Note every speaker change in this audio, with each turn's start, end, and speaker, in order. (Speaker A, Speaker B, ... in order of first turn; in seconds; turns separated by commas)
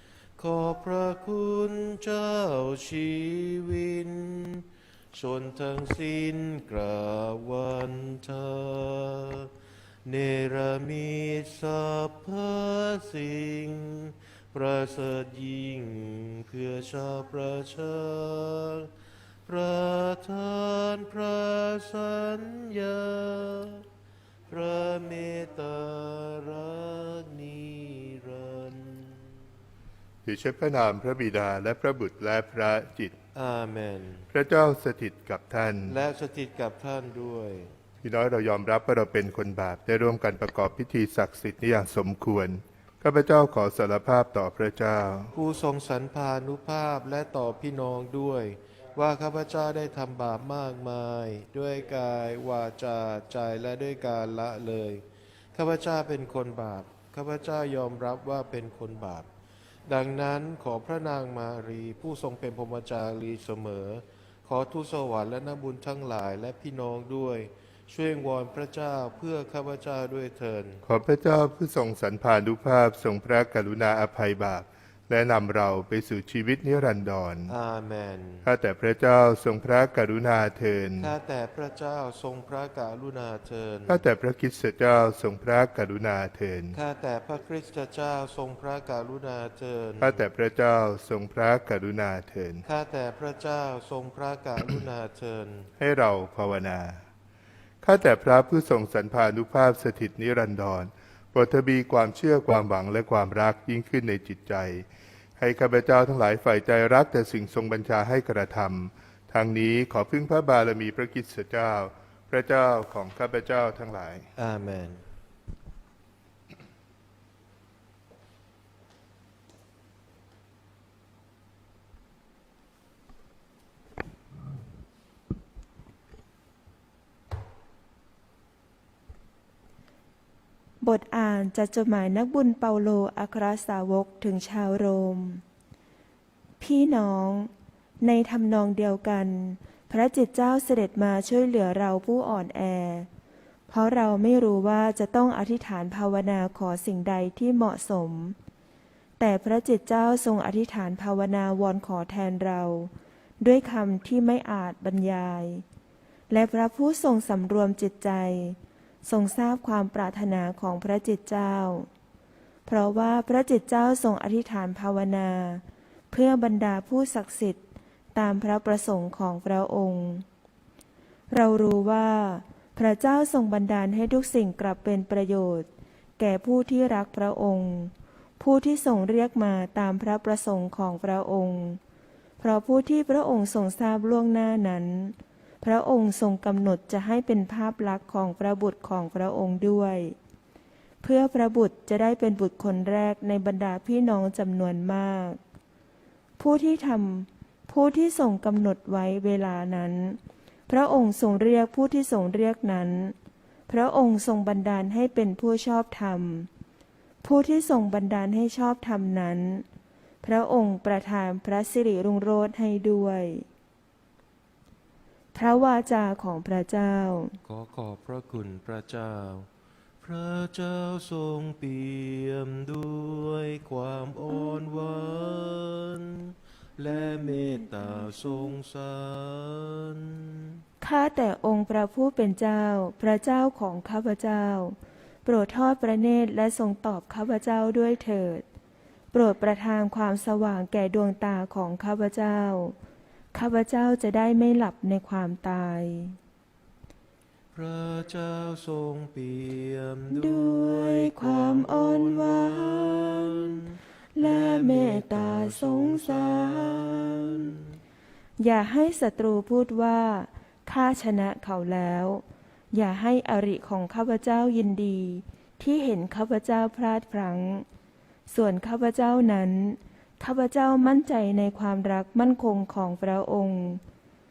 Speaker A: 0.4-9.5, Speaker A: 10.1-18.9, Speaker A: 19.5-23.9, Speaker A: 24.5-29.4, Speaker B: 30.2-33.2, Speaker A: 33.3-34.3, Speaker B: 34.3-36.0, Speaker A: 35.9-37.7, Speaker B: 38.0-45.3, Speaker A: 45.3-55.0, Speaker A: 55.5-59.3, Speaker A: 59.9-70.8, Speaker B: 70.8-77.5, Speaker A: 77.5-78.5, Speaker B: 78.5-81.1, Speaker A: 81.0-84.0, Speaker B: 83.9-86.8, Speaker A: 86.7-90.2, Speaker B: 90.0-92.6, Speaker A: 92.7-95.7, Speaker B: 95.8-97.0, Speaker B: 97.8-104.9, Speaker B: 105.4-114.3, Speaker A: 114.4-115.0, Speaker C: 130.8-135.4, Speaker C: 136.6-137.5, Speaker C: 138.0-143.1, Speaker C: 143.7-148.4, Speaker C: 149.2-155.7, Speaker C: 156.3-161.9, Speaker C: 162.7-167.6, Speaker C: 168.2-170.2, Speaker C: 171.3-181.8, Speaker C: 182.4-190.2, Speaker C: 191.0-195.4, Speaker C: 196.4-203.2, Speaker C: 203.7-206.5, Speaker C: 207.2-209.7, Speaker C: 210.2-213.5, Speaker C: 215.3-217.4, Speaker A: 217.4-219.5, Speaker A: 220.0-230.6, Speaker C: 230.8-238.4, Speaker C: 239.1-242.8, Speaker C: 243.3-246.2, Speaker A: 247.5-257.7, Speaker C: 250.1-253.6, Speaker C: 254.2-257.5, Speaker C: 258.4-267.7, Speaker C: 268.3-273.8